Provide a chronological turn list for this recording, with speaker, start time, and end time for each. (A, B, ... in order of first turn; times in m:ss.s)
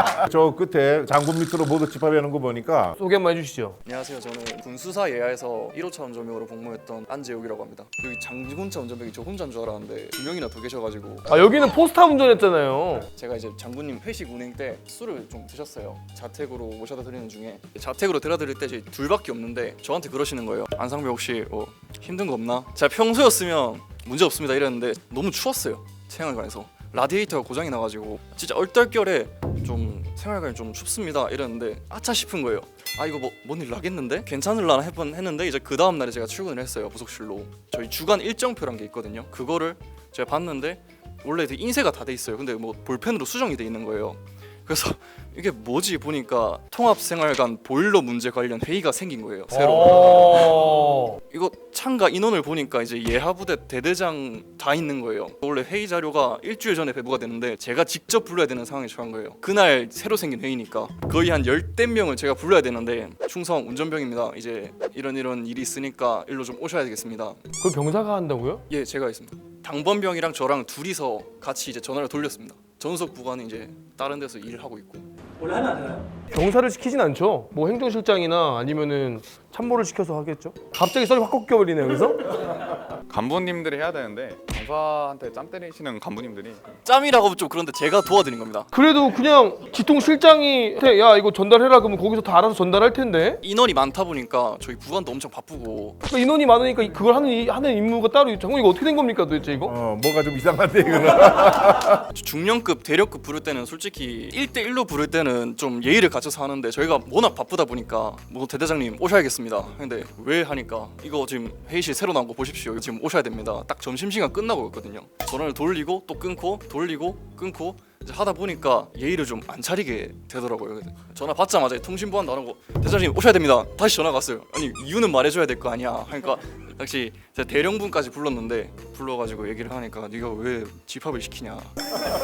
0:00.3-0:02.9 A
0:03.0-0:03.8 B
0:03.8-0:11.3 C
0:11.3-0:13.1 B
0:13.2-0:50.8 C
0:49.5-0:51.2 B
0:51.3-1:07.4 C
1:07.6-1:08.6 B
1:08.7-1:15.1 C
1:16.3-1:22.3 B
1:23.1-1:26.6 D
1:26.8-1:28.7 C
1:28.7-1:33.4 B
1:33.4-1:36.0 C
1:36.1-1:39.7 B
1:39.7-1:42.0 A
1:42.1-2:11.7 C